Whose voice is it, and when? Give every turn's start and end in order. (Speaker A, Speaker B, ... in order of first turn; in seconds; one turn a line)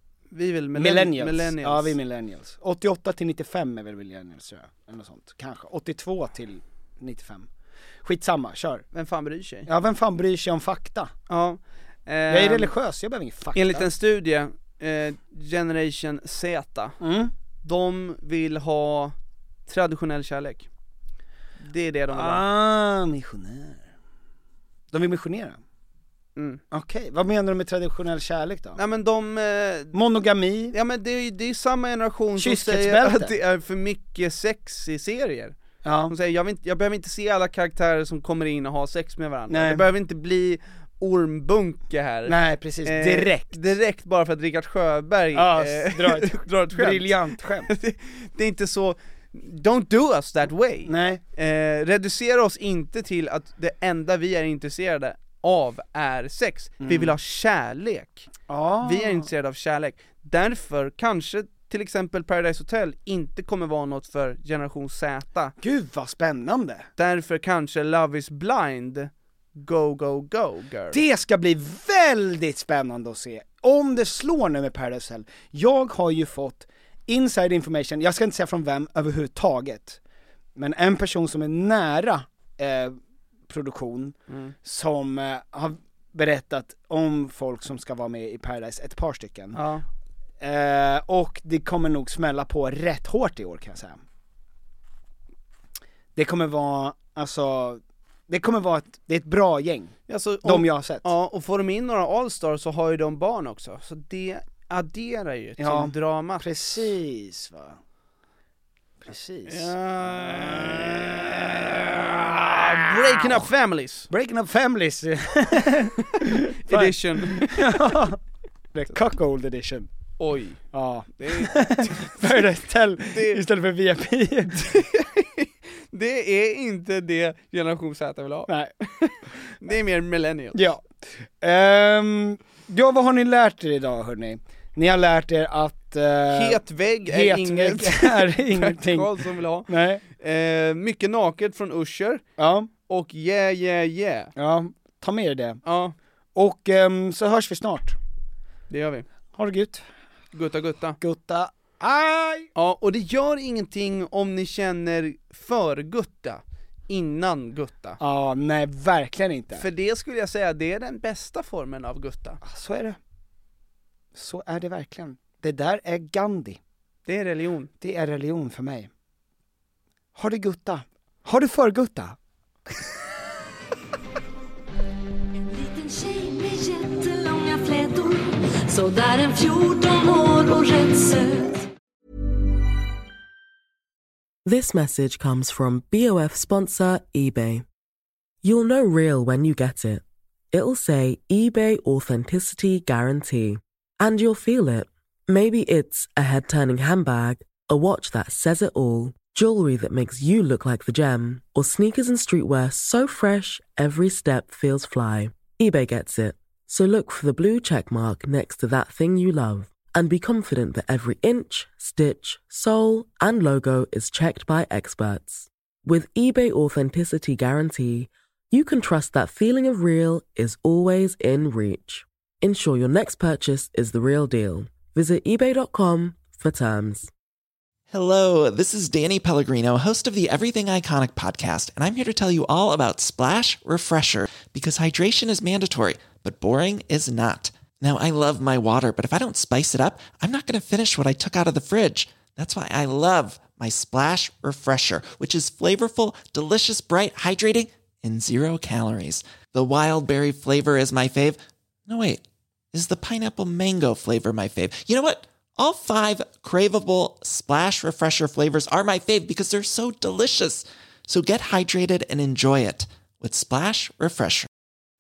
Speaker A: 0.3-2.0
Speaker B: 0.7-7.5
Speaker B: 8.0-8.8
Speaker A: 8.9-9.7
Speaker B: 9.7-11.1
Speaker A: 11.3-12.7
Speaker B: 12.3-13.9
Speaker A: 13.6-16.9
Speaker B: 17.0-17.3
Speaker A: 17.6-19.1
Speaker A: 19.7-20.7
Speaker A: 21.6-22.4
Speaker B: 22.1-23.9
Speaker B: 24.9-25.6
Speaker A: 26.4-26.6
Speaker B: 26.7-28.8
Speaker A: 28.8-29.9
Speaker B: 29.9-30.8
Speaker A: 30.7-35.6
Speaker B: 32.4-33.3
Speaker B: 35.8-36.1
Speaker A: 36.1-65.5
Speaker B: 39.5-39.9
Speaker B: 42.3-43.6
Speaker B: 45.3-47.7
Speaker B: 50.9-51.2
Speaker B: 56.8-57.1
Speaker B: 58.5-59.3
Speaker B: 65.6-66.9
Speaker A: 67.0-71.0
Speaker B: 70.9-80.0
Speaker B: 80.6-83.0
Speaker B: 83.5-89.6
Speaker A: 84.3-84.5
Speaker A: 89.5-89.8
Speaker B: 90.4-94.0
Speaker B: 96.2-101.1
Speaker A: 100.1-106.4
Speaker B: 105.6-107.8
Speaker B: 109.0-113.5
Speaker A: 109.5-111.3
Speaker A: 112.4-114.1
Speaker B: 114.1-118.2
Speaker A: 116.6-118.0
Speaker B: 118.7-119.9
Speaker A: 120.2-120.6
Speaker B: 120.7-124.7
Speaker A: 121.2-122.4
Speaker A: 123.1-123.4
Speaker A: 124.6-130.7
Speaker B: 128.5-128.7
Speaker B: 130.5-130.8
Speaker B: 131.4-139.2
Speaker A: 136.3-142.2
Speaker B: 139.7-140.0
Speaker B: 142.4-142.7
Speaker A: 142.9-144.3
Speaker B: 144.4-145.6
Speaker A: 145.6-145.9
Speaker B: 146.3-148.0
Speaker A: 148.7-149.1
Speaker B: 149.3-149.8
Speaker A: 150.3-151.0
Speaker B: 151.0-152.5
Speaker A: 152.6-158.0
Speaker B: 158.0-159.7
Speaker A: 159.6-162.4
Speaker B: 162.4-163.0
Speaker B: 164.1-166.6
Speaker A: 167.1-167.7
Speaker B: 167.8-168.9
Speaker B: 170.2-172.2
Speaker C: 175.5-181.7
Speaker D: 184.4-187.6
Speaker D: 188.4-227.1
Speaker E: 227.9-264.5